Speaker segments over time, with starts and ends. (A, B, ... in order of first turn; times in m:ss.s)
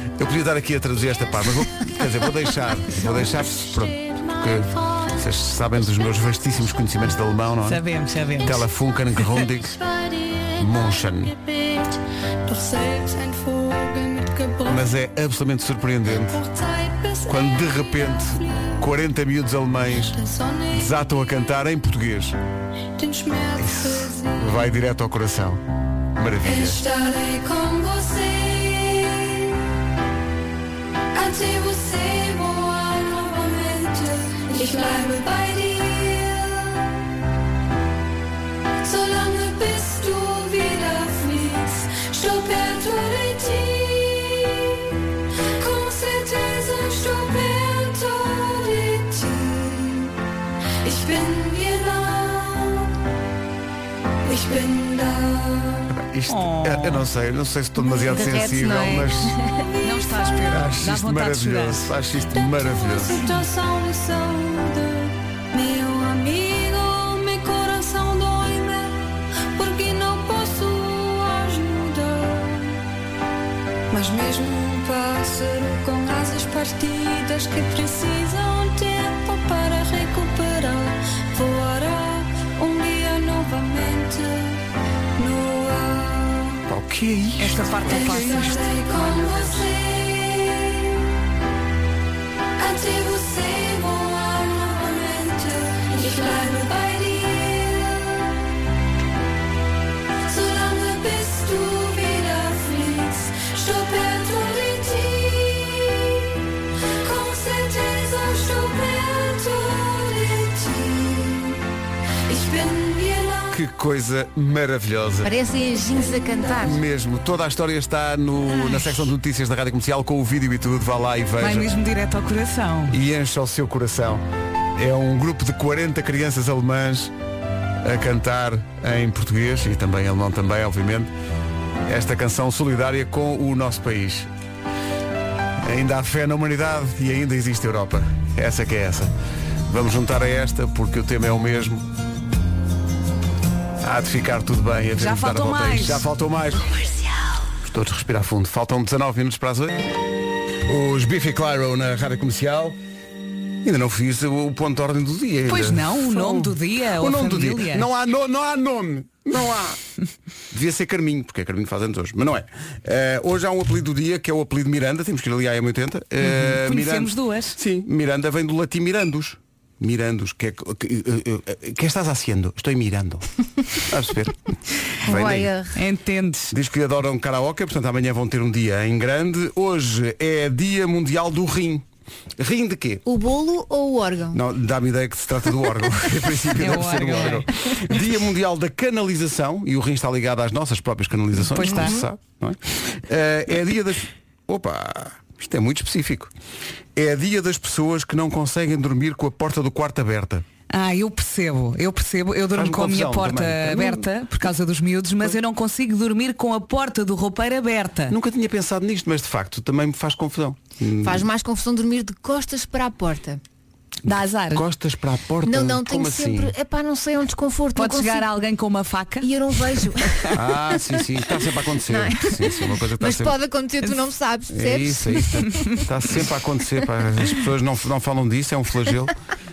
0:00.2-0:07.8 A
0:01.3-0:06.2 B
0:07.6-0:08.6 C
0:08.4-0:14.9 B
0:08.4-0:09.7 A
0:10.6-0:11.3 A
0:14.7-0:16.4 A
0:16.1-0:18.9 B
0:17.3-0:20.2 A
0:19.9-0:21.0 B
0:20.7-0:22.4 A
0:23.0-0:24.8 B
0:23.6-0:25.6 A
0:26.2-0:26.8 A
0:26.4-0:29.4 B
0:31.1-0:36.8 B
0:38.8-0:44.7 B
0:45.6-0:50.1 B
0:50.8-0:52.9 B
0:54.2-0:55.9 B
0:55.9-0:59.3 A
0:56.3-0:57.0 C
0:58.0-0:59.5 D
0:59.6-1:00.5 B
0:59.8-1:01.9 C
1:00.5-1:03.2 A
1:02.2-1:09.0 B
1:09.5-1:12.8 B
1:13.9-1:24.6 B
1:25.2-1:26.6 B
1:26.7-1:28.5 A
1:27.4-1:28.7 C
1:27.8-1:30.8 B
1:32.6-1:38.2 B
1:40.2-1:46.2 B
1:47.0-1:51.6 B
1:52.3-1:53.6 B
1:53.5-1:55.3 A
1:55.2-1:56.8 D
1:56.6-2:01.7 A
2:01.4-2:03.0 C
2:02.9-2:04.2 A
2:04.8-2:07.1 A
2:07.8-2:11.1 A
2:11.8-2:14.3 A
2:15.6-2:19.1 A
2:19.7-2:21.8 A
2:23.8-2:26.7 A
2:25.0-2:26.1 C
2:27.6-2:29.8 A
2:30.7-2:32.8 A
2:33.6-2:39.8 A
2:35.5-2:37.9 C
2:40.5-2:53.2 A
2:46.2-2:47.6 C
2:53.9-2:54.4 A
2:55.0-2:55.5 A
2:55.0-2:55.7 D
2:55.7-2:56.5 C
2:56.5-3:01.8 A
3:02.4-3:03.0 A
3:03.0-3:04.4 D
3:04.3-3:16.3 A
3:06.6-3:07.4 C
3:11.4-3:12.0 C
3:11.6-3:12.0 D
3:16.9-3:20.4 A
3:20.7-3:28.1 C
3:22.5-3:24.1 A
3:28.1-3:31.2 A
3:31.0-3:33.4 D
3:34.0-3:34.6 C
3:34.5-3:36.5 A
3:35.4-3:38.3 D
3:37.8-3:39.3 C
3:39.2-3:40.8 D
3:40.3-3:43.4 A
3:41.8-3:45.8 D
3:44.5-3:49.1 A